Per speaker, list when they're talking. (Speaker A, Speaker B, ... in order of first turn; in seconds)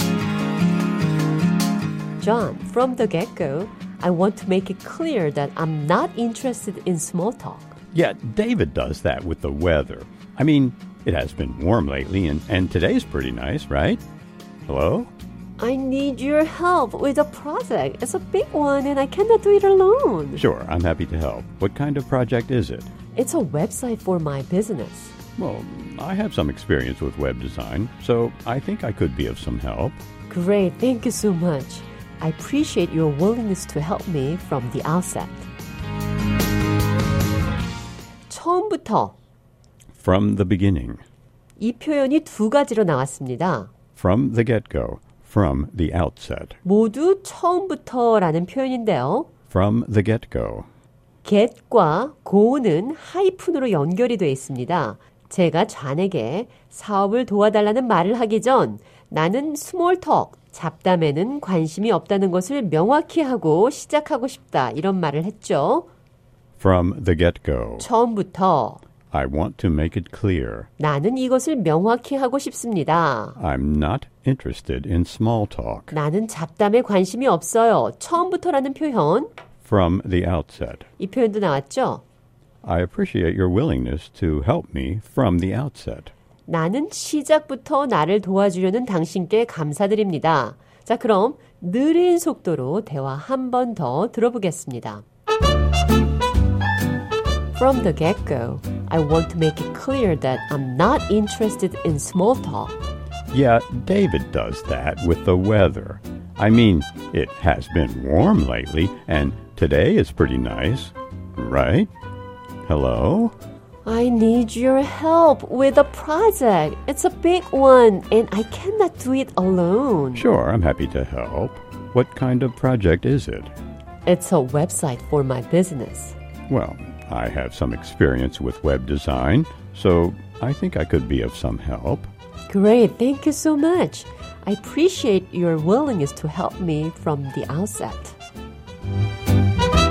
Speaker A: 2.2-7.8, 15.6-20.4, 23.1-25.1, 30.3-35.5, 38.3-39.1, 41.6-43.7, 46.6-49.3, 51.2-65.9, 67.8-68.8, 70.8-73.4, 75.9-79.3, 81.0-82.0, 86.5-95.0, 97.5-102.8, 113.8-120.3, 124.1-126.2, 132.5-138.2
Speaker B: 7.9-14.0, 14.7-15.1, 20.4-22.9, 25.4-30.0, 40.0-41.0, 44.0-46.6, 49.5-50.7, 66.6-67.9, 69.1-70.7, 73.4-76.0, 79.6-80.9, 82.6-86.1, 103.3-111.9, 112.7-113.3, 120.2-123.5, 126.5-132.1